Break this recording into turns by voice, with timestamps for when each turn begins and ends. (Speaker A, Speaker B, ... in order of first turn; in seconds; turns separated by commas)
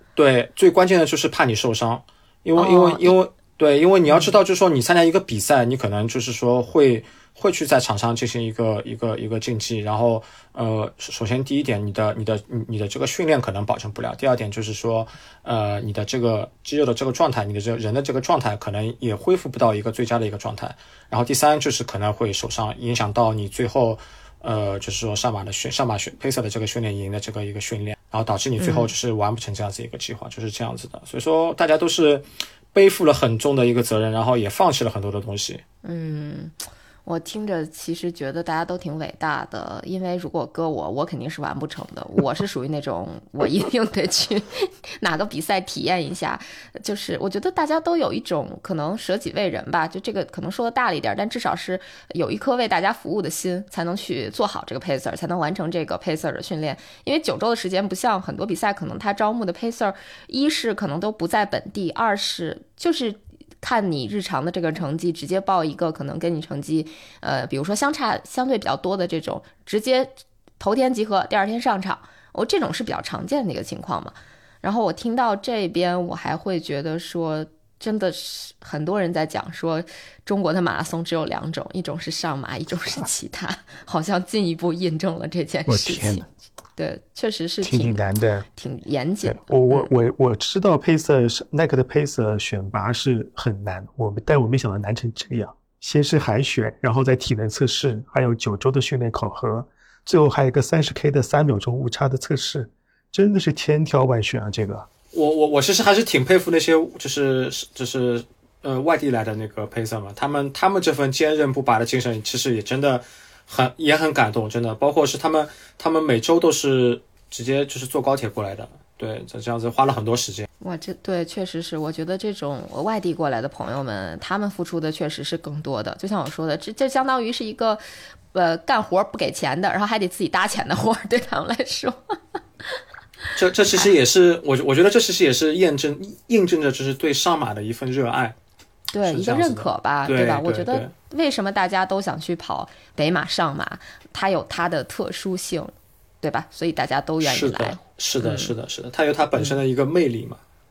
Speaker A: 0.1-35.6, Speaker B: 2.6-3.1, Speaker B: 4.0-4.3, Speaker B: 28.6-28.9, Speaker B: 35.8-89.9, Speaker C: 85.7-86.2, Speaker C: 87.6-88.5, Speaker C: 89.2-104.9, Speaker A: 105.1-120.5, Speaker B: 120.6-127.8, Speaker B: 128.3-132.1, Speaker A: 133.3-138.4, Speaker B: 138.9-148.5, Speaker A: 139.1-140.9, Speaker A: 147.2-150.4